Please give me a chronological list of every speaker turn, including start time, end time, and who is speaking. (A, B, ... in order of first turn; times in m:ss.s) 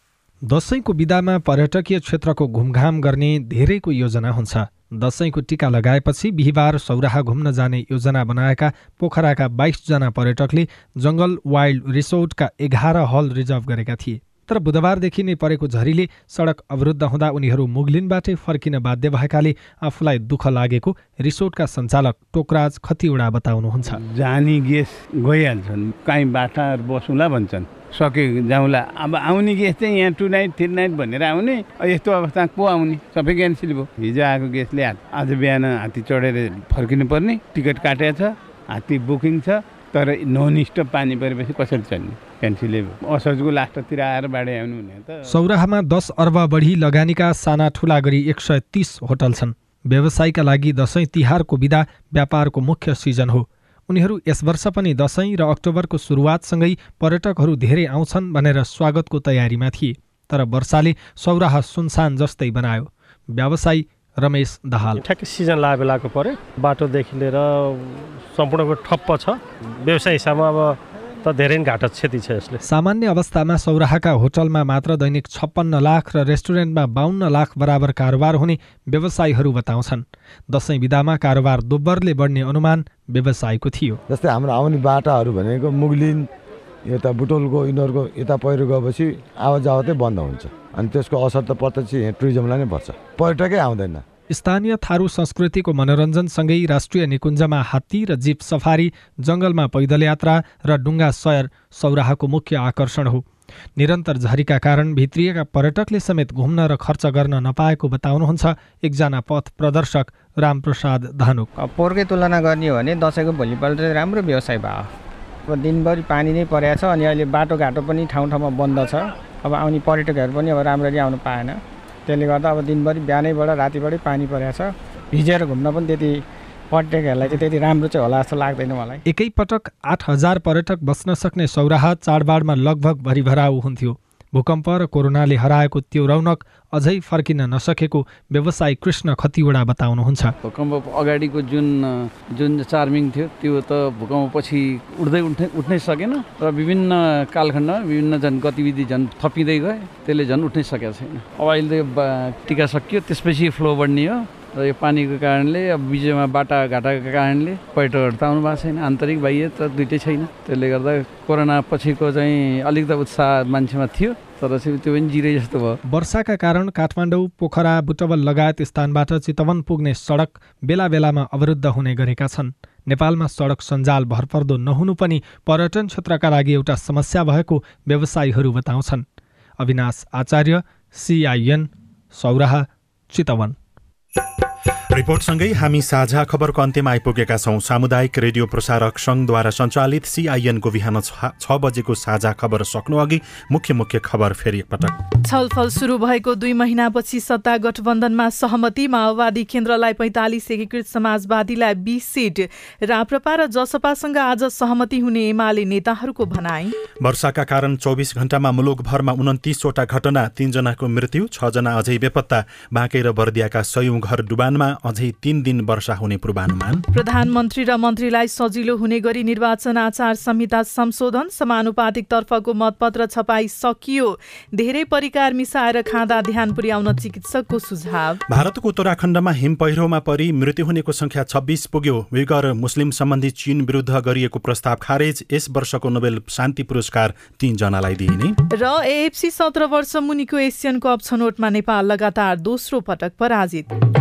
0:00.5-0:24.0 A
0:23.9-0:45.2 B
0:45.3-1:05.0 A
1:05.0-1:12.6 C
1:12.7-1:24.0 A
1:24.1-1:26.3 D
1:26.9-1:34.0 D
1:34.3-1:43.2 A
1:43.8-1:51.5 A
1:51.6-1:54.9 E
1:55.5-2:09.0 E
2:09.1-2:20.3 A
2:20.4-2:45.8 F
2:45.9-2:59.0 A
2:59.6-3:03.6 A
3:04.9-3:15.0 G
3:15.2-3:26.8 H
3:27.0-3:36.8 G
3:36.9-3:48.2 H
3:48.3-3:58.4 G
3:58.6-4:03.7 H